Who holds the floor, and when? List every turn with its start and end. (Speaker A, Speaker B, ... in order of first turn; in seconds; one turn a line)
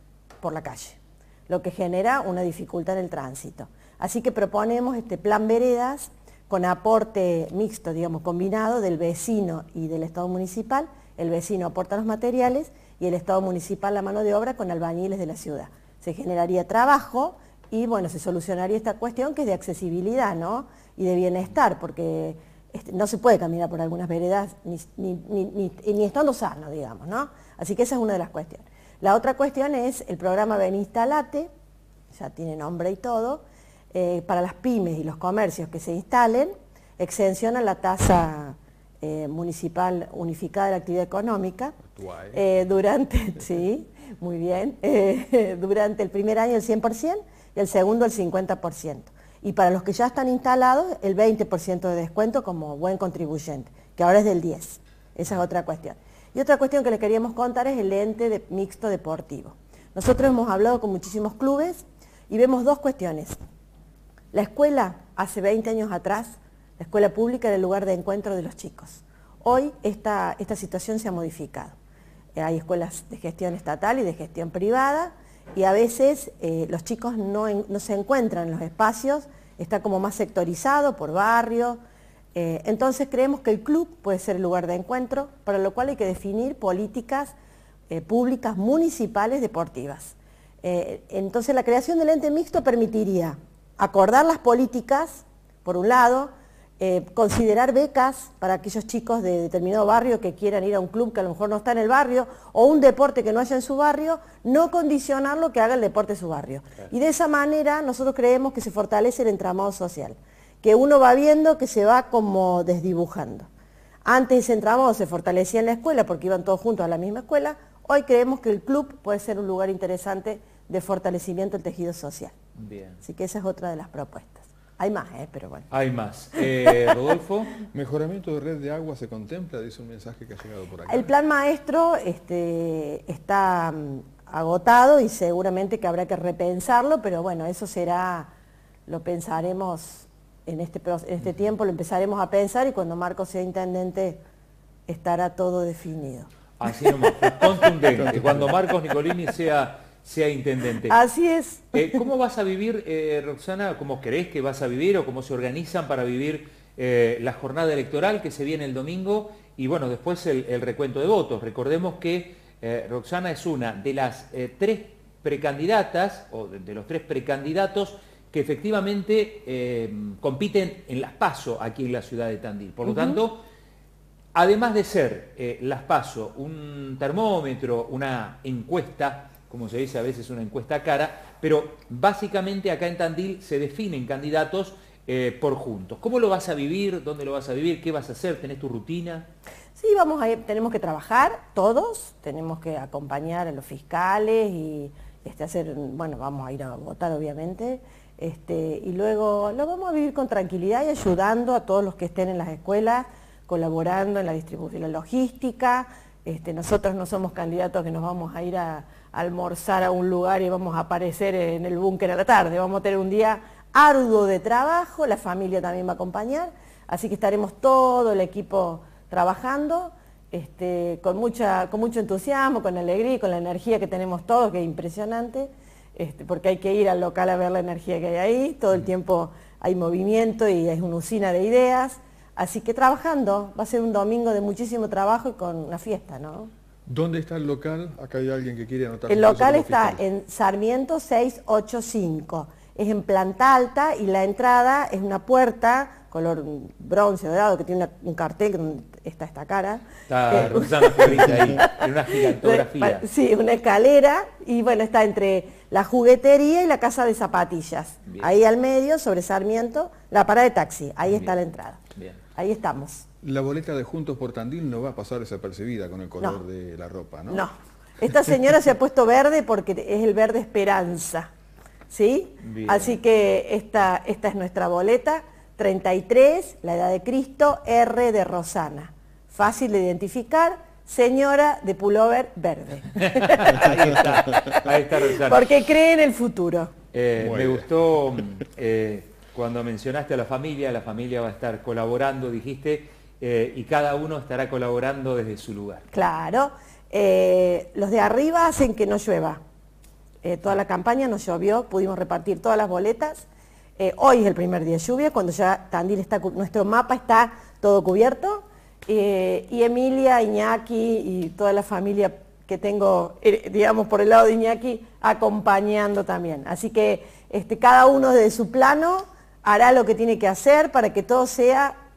Speaker A: 0.4-31.5
Speaker A: 32.1-41.8
Speaker B: 41.8-42.4
Speaker A: 42.3-63.4
Speaker A: 64.3-71.8
Speaker A: 72.4-81.8
Speaker A: 82.3-87.3
Speaker A: 87.9-113.5
Speaker A: 114.0-122.4
Speaker C: 122.5-123.0
Speaker A: 123.0-125.7
Speaker C: 125.7-127.5
Speaker A: 126.4-126.7
Speaker B: 127.7-131.1
Speaker A: 130.9-138.3
Speaker A: 138.9-144.2
Speaker A: 144.9-146.3
Speaker C: 146.6-151.0
Speaker A: 150.9-152.0
Speaker C: 151.7-173.4
Speaker A: 172.9-173.2
Speaker C: 174.3-189.3
Speaker A: 189.8-236.5
Speaker B: 236.9-240.0
Speaker A: 239.1-261.8
Speaker C: 250.1-253.0
Speaker A: 262.4-263.0
Speaker B: 263.2-267.4
Speaker A: 267.3-271.3
Speaker A: 271.9-283.7
Speaker C: 272.4-273.0
Speaker C: 283.0-285.6
Speaker A: 284.4-286.7
Speaker C: 286.9-295.9
Speaker B: 287.2-287.7
Speaker A: 295.9-299.4
Speaker A: 300.2-321.8